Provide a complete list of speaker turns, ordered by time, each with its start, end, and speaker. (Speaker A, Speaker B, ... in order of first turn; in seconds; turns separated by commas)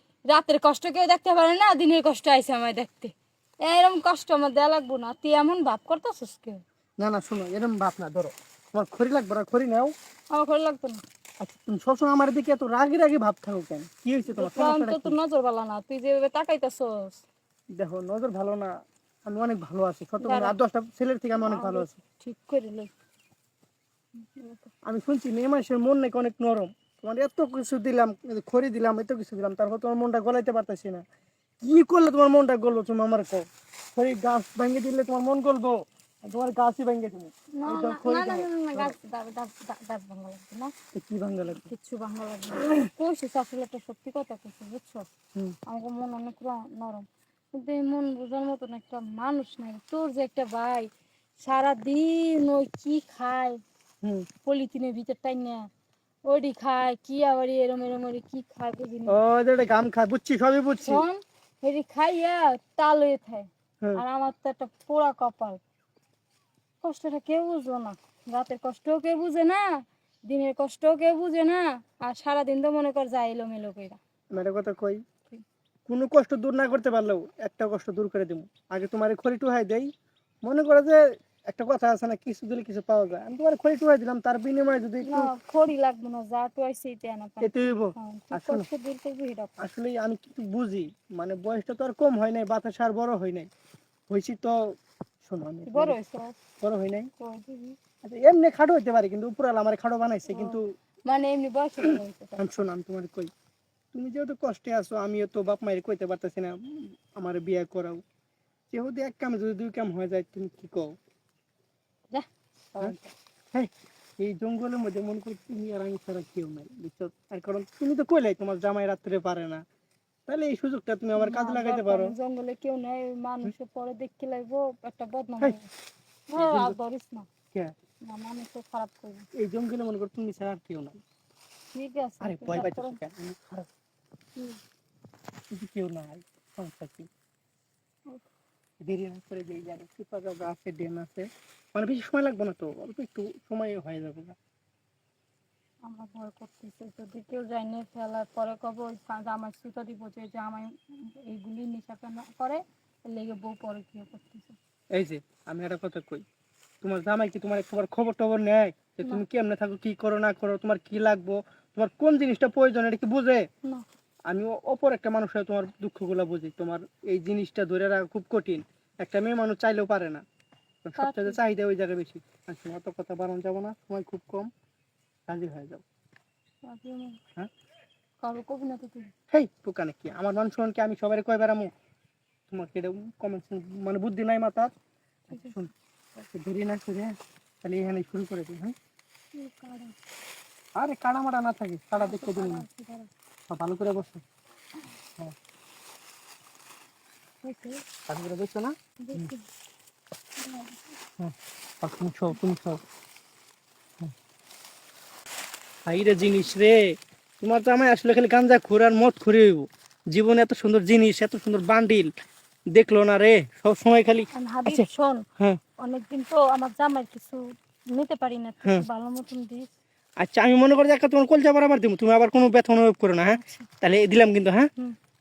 Speaker A: 0.3-6.6, Speaker B: 7.0-9.9, Speaker A: 10.3-11.0, Speaker B: 11.4-15.2, Speaker A: 14.3-17.2, Speaker B: 17.8-18.7, Speaker B: 19.2-22.0, Speaker A: 20.2-20.6, Speaker A: 21.4-22.9, Speaker A: 24.1-24.7, Speaker B: 24.9-31.0, Speaker B: 31.6-38.9, Speaker A: 37.5-40.7, Speaker B: 40.9-41.6, Speaker A: 41.5-45.1, Speaker A: 45.7-50.9, Speaker A: 51.4-53.6, Speaker A: 54.4-55.7, Speaker A: 56.2-59.1, Speaker B: 59.1-61.0, Speaker A: 60.8-65.6, Speaker A: 66.8-69.7, Speaker A: 70.2-74.0, Speaker B: 74.3-75.0, Speaker B: 75.9-79.9, Speaker B: 80.4-85.3, Speaker A: 85.0-89.6, Speaker B: 87.4-88.7, Speaker B: 89.6-93.5, Speaker B: 94.1-94.5, Speaker B: 95.2-96.0, Speaker A: 95.7-96.4, Speaker B: 96.6-97.1, Speaker A: 97.2-97.8, Speaker B: 98.0-100.7, Speaker A: 100.3-102.5, Speaker B: 102.4-103.3, Speaker B: 103.9-108.0, Speaker B: 108.7-110.9, Speaker A: 112.1-113.1, Speaker B: 114.2-119.6, Speaker B: 120.3-122.1, Speaker A: 121.2-125.7, Speaker A: 126.3-127.3, Speaker B: 126.3-126.8, Speaker A: 128.0-129.3, Speaker B: 129.4-131.0, Speaker A: 131.7-133.0, Speaker B: 132.2-133.7, Speaker B: 135.5-137.1, Speaker B: 138.8-144.3, Speaker A: 145.8-154.6, Speaker B: 154.9-156.2, Speaker B: 156.8-163.4, Speaker B: 164.3-170.2, Speaker B: 170.8-174.5, Speaker A: 171.0-171.4, Speaker B: 175.3-175.8, Speaker A: 176.6-177.2, Speaker A: 178.2-179.1, Speaker B: 179.3-181.7, Speaker B: 182.5-184.7, Speaker B: 185.3-188.7, Speaker A: 185.3-185.6, Speaker A: 189.3-189.9, Speaker B: 190.8-192.6, Speaker A: 192.0-193.1, Speaker B: 193.5-194.2, Speaker A: 197.4-197.8, Speaker B: 198.1-199.3, Speaker A: 199.0-199.4, Speaker A: 200.4-200.8, Speaker B: 201.2-202.8, Speaker B: 205.8-206.8, Speaker B: 207.4-212.1, Speaker B: 212.7-214.9, Speaker A: 214.3-215.2, Speaker A: 215.8-219.7, Speaker B: 220.2-224.7, Speaker A: 223.2-223.7